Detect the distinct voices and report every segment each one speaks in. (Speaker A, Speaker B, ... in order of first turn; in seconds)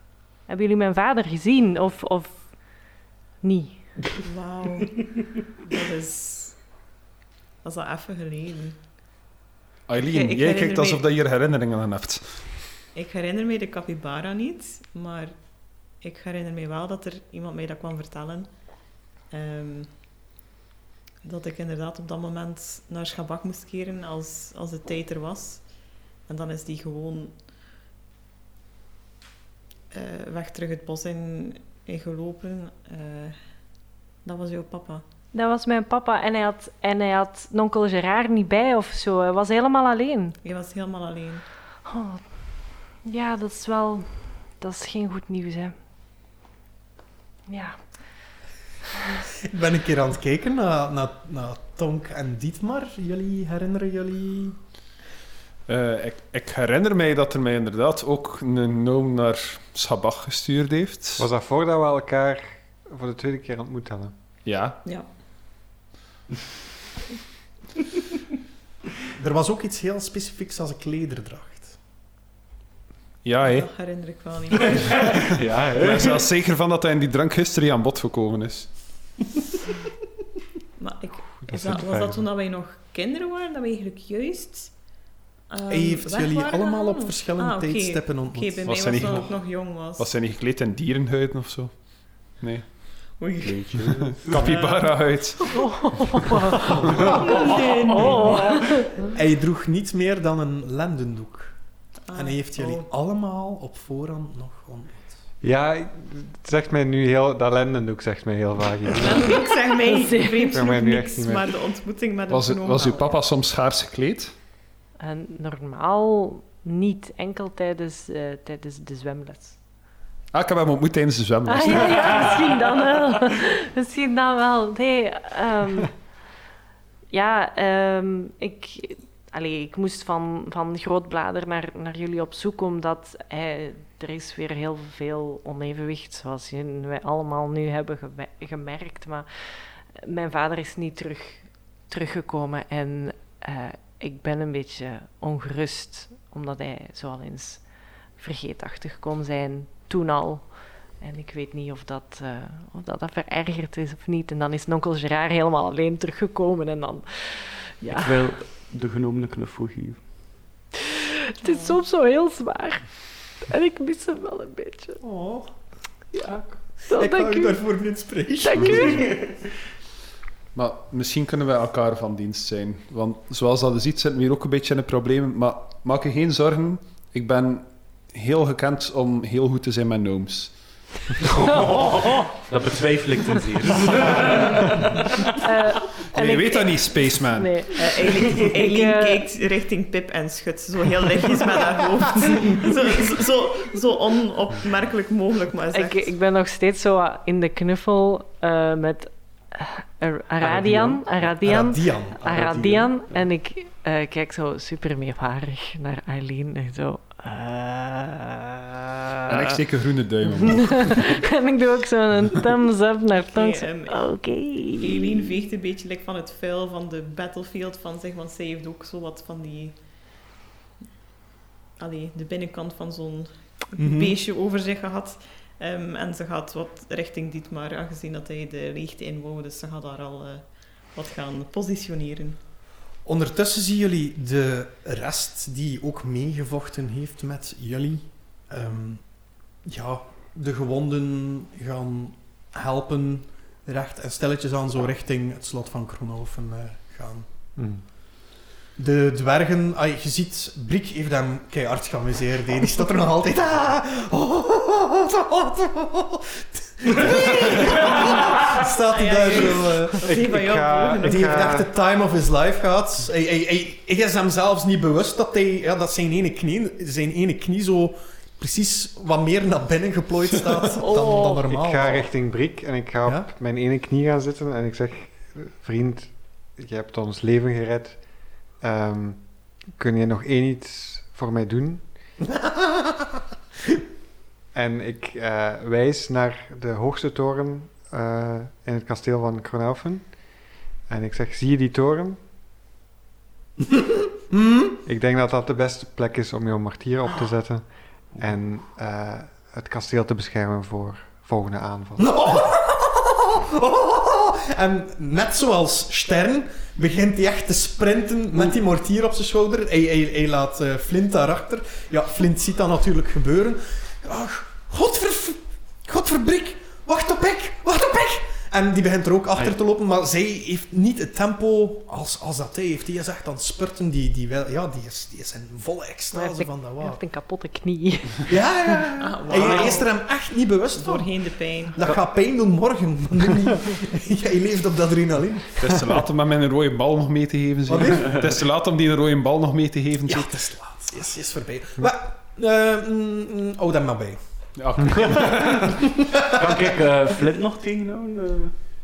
Speaker A: 0.5-2.5, 3.4-3.8, 35.3-40.4, 41.9-42.2, 42.9-45.7, 47.5-47.8, 95.5-96.6, 97.4-99.0, 109.8-110.5, 115.0-119.6, 121.5-125.9, 127.1-147.6, 148.2-158.1, 161.4-162.8, 163.4-165.0, 166.9-167.6, 168.4-169.1, 185.4-189.2, 195.7-209.6, 210.3-215.1, 270.8-271.3, 326.1-328.3
Speaker B: 4.2-6.6, 7.6-8.8, 10.0-11.0, 12.9-15.3, 16.0-18.5, 19.3-19.9, 21.2-25.6, 26.3-27.4, 29.9-33.4, 34.2-35.0, 40.4-41.4, 73.4-75.2, 80.8-84.7, 85.5-90.1, 93.1-93.8, 94.3-95.7, 96.8-98.7, 102.1-102.9, 109.0-113.2, 187.8-196.1, 213.2-214.1, 214.8-219.8, 221.8-232.4, 258.9-261.6, 329.0-330.0, 330.7-331.8
Speaker C: 9.9-12.6, 55.7-61.2, 64.4-64.8, 73.2-73.7, 75.7-78.7, 88.7-92.7, 93.9-96.0, 112.3-114.3, 120.3-122.5, 170.5-180.6, 181.2-181.7, 186.1-187.7, 209.3-211.1, 335.6-340.4, 344.6-345.7
Speaker D: 49.5-54.6, 69.1-71.8, 85.7-89.2, 99.0-101.6, 102.1-105.1, 165.0-165.5, 166.9-169.1, 201.4-202.2, 223.8-224.2, 233.0-239.0, 239.6-247.2, 248.8-260.3, 261.0-272.1, 282.3-283.0, 294.3-294.8, 302.0-327.0, 328.2-331.1, 331.7-335.8, 337.7-338.4, 340.0-344.2
Speaker E: 61.2-64.1, 81.4-82.2, 105.4-109.5, 110.5-111.5, 247.6-247.8, 260.1-261.7, 271.5-278.0, 278.6-281.8, 284.5-290.1, 290.9-292.2, 294.8-302.4
Speaker F: 74.9-76.3, 93.4-94.5, 157.9-160.1, 181.3-185.2, 200.4-201.0, 202.2-203.2, 346.2-348.5